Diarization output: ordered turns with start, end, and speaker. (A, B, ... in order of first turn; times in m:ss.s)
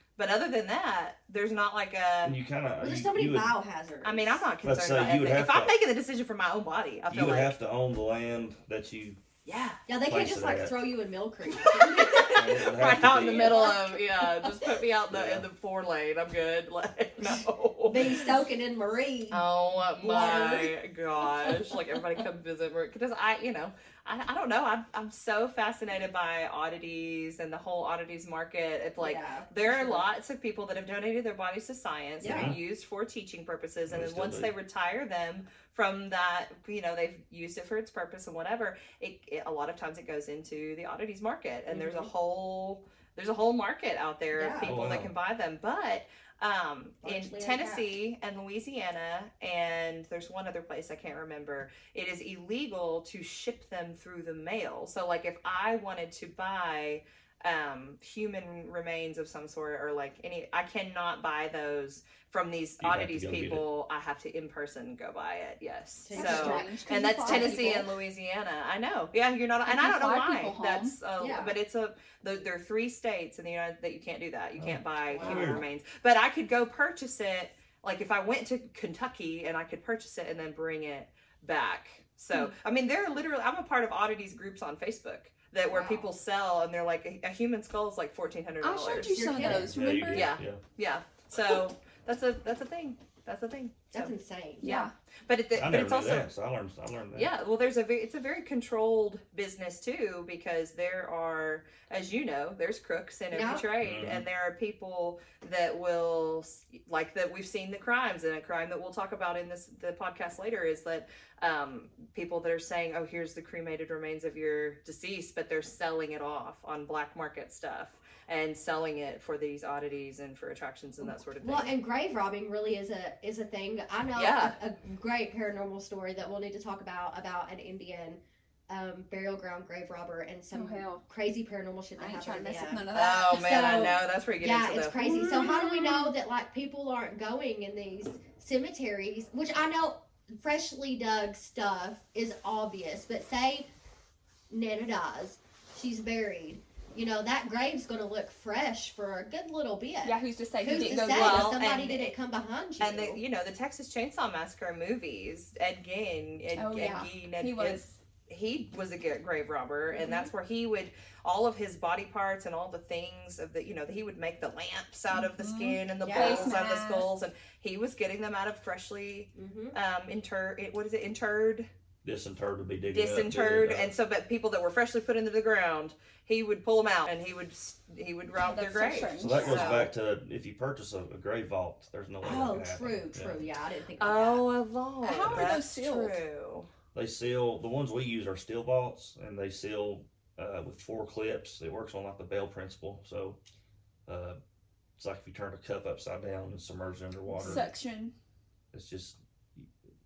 0:00.2-0:02.4 A
0:02.2-0:03.6 B
0:02.8-0:04.4 C
0:04.0-0:07.5 A
0:04.6-0:05.7 B
0:07.1-0:09.2 B
0:09.4-0:09.8 A
0:09.9-0:14.7 C
0:10.0-0:10.8 B
0:11.5-0:18.4 A
0:12.3-0:13.7 B
0:15.1-0:15.5 B
0:17.8-0:20.7 C
0:19.3-1:29.5 A
0:21.4-0:21.8 C
0:29.0-0:30.0 C
0:32.2-0:32.5 C
0:32.2-0:32.6 B
0:33.9-0:34.5 B
0:41.7-0:42.1 C
0:44.3-0:44.8 C
0:44.6-0:45.1 B
0:47.0-0:47.8 C
1:02.8-1:03.6 B
1:06.0-1:07.7 C
1:06.1-1:07.9 D
1:09.6-1:10.9 D
1:11.2-1:11.5 C
1:14.6-1:15.6 B
1:15.1-1:15.6 C
1:25.7-1:26.1 C
1:28.6-1:30.3 D
1:29.0-1:29.7 C
1:29.4-1:30.6 B
1:30.1-1:34.1 A
1:33.9-1:34.7 C
1:34.6-1:34.9 D
1:34.6-1:36.3 A
1:35.5-1:37.3 B
1:37.1-2:01.8 A
1:43.3-1:43.6 C
1:43.8-1:44.2 B
2:01.0-2:23.7 C
2:04.1-2:04.5 A
2:10.5-2:11.0 D
2:12.0-2:13.7 D
2:12.9-2:15.5 A
2:15.1-2:16.1 D
2:24.5-2:33.2 C
2:30.0-2:31.6 D
2:30.9-2:32.1 A
2:32.8-2:51.7 A
2:36.5-2:38.0 D
2:40.0-2:40.2 D
2:45.1-2:47.1 D
2:46.0-2:46.6 C
2:49.3-2:49.8 C
2:52.0-2:53.9 B
2:52.9-2:59.9 A
2:58.4-2:59.8 D
2:59.2-3:03.5 B
3:02.2-3:04.4 C
3:04.0-3:06.7 A
3:05.0-3:06.2 D
3:05.2-3:05.6 B
3:06.9-3:13.4 B
3:14.1-3:14.4 B
3:15.0-3:17.6 B
3:17.3-3:18.1 D
3:18.7-3:19.7 B